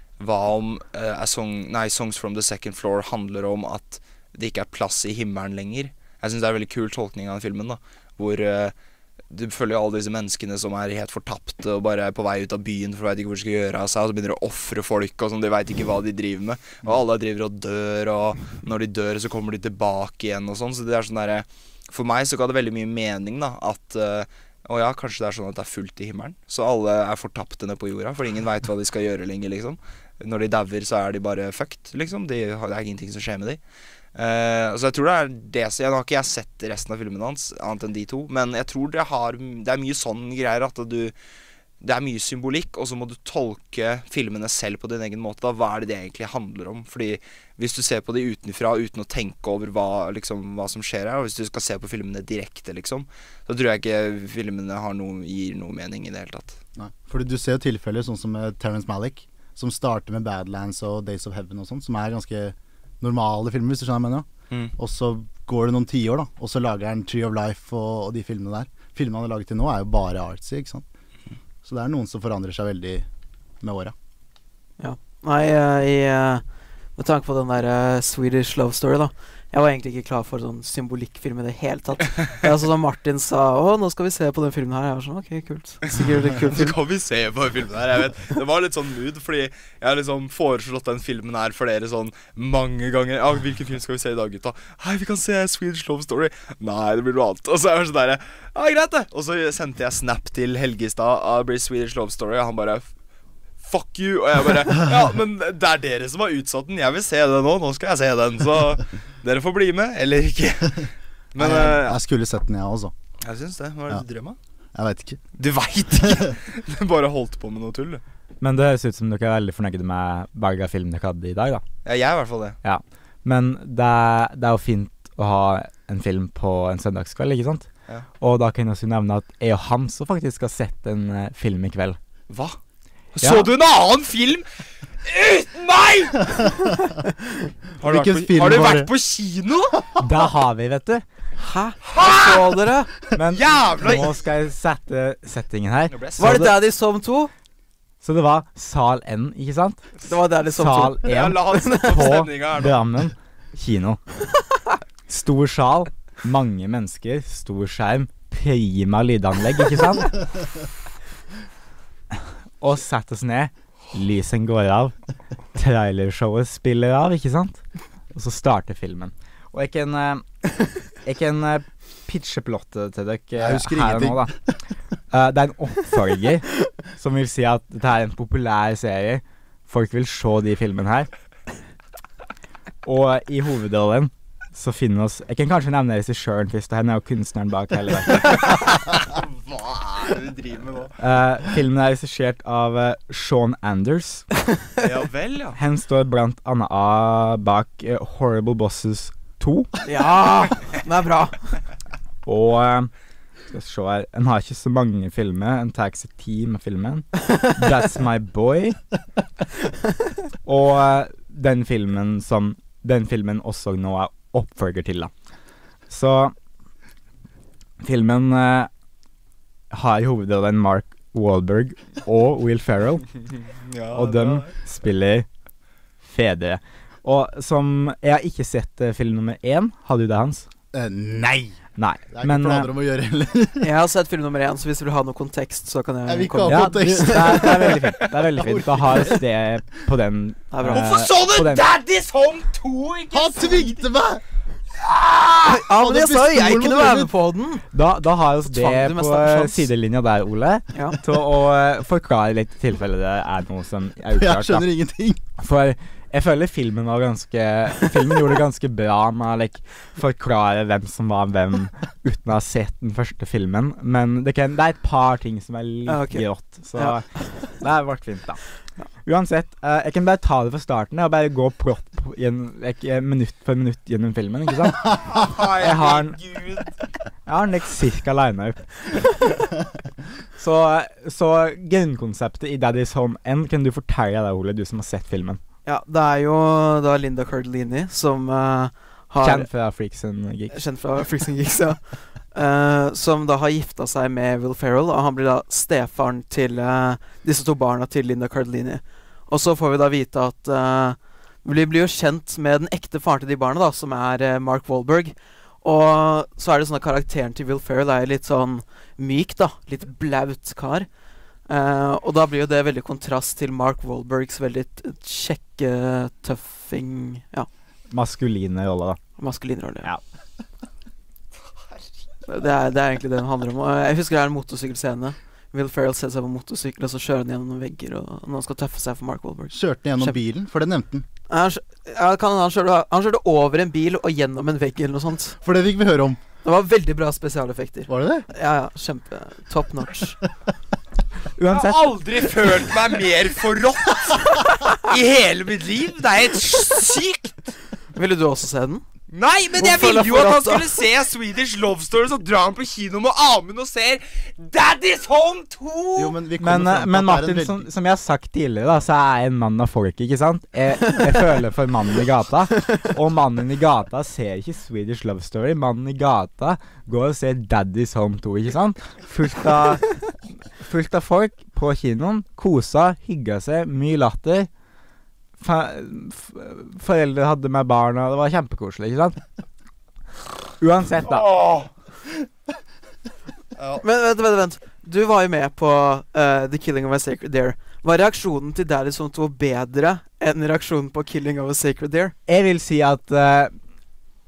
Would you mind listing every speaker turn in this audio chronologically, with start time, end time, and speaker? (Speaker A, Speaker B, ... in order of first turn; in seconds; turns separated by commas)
Speaker A: 0.2-8.7, Speaker A: 9.3-33.6, Speaker A: 34.1-41.1, Speaker A: 41.8-56.6, Speaker B: 56.8-70.8, Speaker B: 71.6-73.0, Speaker B: 73.6-73.9, Speaker C: 74.8-76.4, Speaker C: 77.0-86.8, Speaker A: 86.4-102.8, Speaker A: 103.6-112.0, Speaker B: 111.4-112.9, Speaker A: 113.2-114.3, Speaker B: 114.7-115.2, Speaker A: 115.4-118.0, Speaker D: 118.4-121.6, Speaker A: 121.8-122.6, Speaker D: 122.6-127.7, Speaker D: 128.2-132.0, Speaker A: 132.3-132.6, Speaker A: 133.1-134.4, Speaker D: 133.2-133.5, Speaker A: 135.0-136.5, Speaker A: 137.8-139.7, Speaker B: 137.8-138.9, Speaker D: 140.0-141.0, Speaker C: 141.4-142.9, Speaker A: 141.8-142.5, Speaker D: 143.1-146.6, Speaker A: 143.3-144.1, Speaker A: 145.9-146.4, Speaker C: 146.2-147.3, Speaker D: 148.0-154.0, Speaker C: 150.0-152.1, Speaker A: 151.0-152.8, Speaker D: 155.1-160.2, Speaker D: 162.1-164.9, Speaker D: 165.5-167.6, Speaker D: 168.1-170.2, Speaker D: 171.0-174.3, Speaker B: 173.4-174.3, Speaker D: 175.1-181.1, Speaker D: 182.8-188.5, Speaker A: 188.2-190.9, Speaker D: 191.0-194.2, Speaker A: 194.8-195.6, Speaker D: 195.6-199.7, Speaker C: 199.8-201.6, Speaker D: 202.2-202.9, Speaker D: 203.5-208.8, Speaker D: 210.4-215.1, Speaker D: 215.9-216.3, Speaker D: 217.8-218.7, Speaker D: 219.7-223.1, Speaker A: 223.5-224.5, Speaker D: 223.9-225.3, Speaker D: 226.0-230.5, Speaker B: 230.7-231.6, Speaker D: 231.8-232.7, Speaker B: 232.1-233.7, Speaker C: 233.6-237.8, Speaker B: 236.1-239.2, Speaker D: 236.4-241.6, Speaker C: 240.5-240.9, Speaker A: 240.7-243.8, Speaker B: 243.1-244.2, Speaker A: 244.8-245.6, Speaker C: 245.4-247.6, Speaker B: 245.6-247.1, Speaker D: 247.7-254.7, Speaker C: 248.4-249.7, Speaker C: 250.7-251.0, Speaker B: 254.2-255.2, Speaker D: 255.4-268.4, Speaker C: 265.9-267.0, Speaker D: 269.0-276.2, Speaker A: 274.9-276.7, Speaker D: 277.2-279.3, Speaker D: 280.4-285.4, Speaker C: 285.6-289.5, Speaker D: 289.2-290.6, Speaker C: 290.5-291.8, Speaker C: 292.3-310.9, Speaker C: 311.5-317.5, Speaker D: 317.9-319.0, Speaker C: 319.2-319.9, Speaker C: 322.3-330.2, Speaker B: 329.5-331.1, Speaker C: 331.3-335.4, Speaker B: 335.4-336.2, Speaker C: 336.4-340.2, Speaker B: 337.9-338.3, Speaker D: 341.4-341.9, Speaker A: 341.5-347.5, Speaker C: 347.9-348.8, Speaker A: 349.1-356.1, Speaker C: 349.6-350.7, Speaker B: 355.9-357.7, Speaker D: 356.4-369.9, Speaker D: 370.6-374.5, Speaker D: 375.4-379.2, Speaker D: 380.6-381.3, Speaker A: 381.1-381.7, Speaker A: 383.6-383.8, Speaker C: 383.8-392.1, Speaker D: 392.3-393.5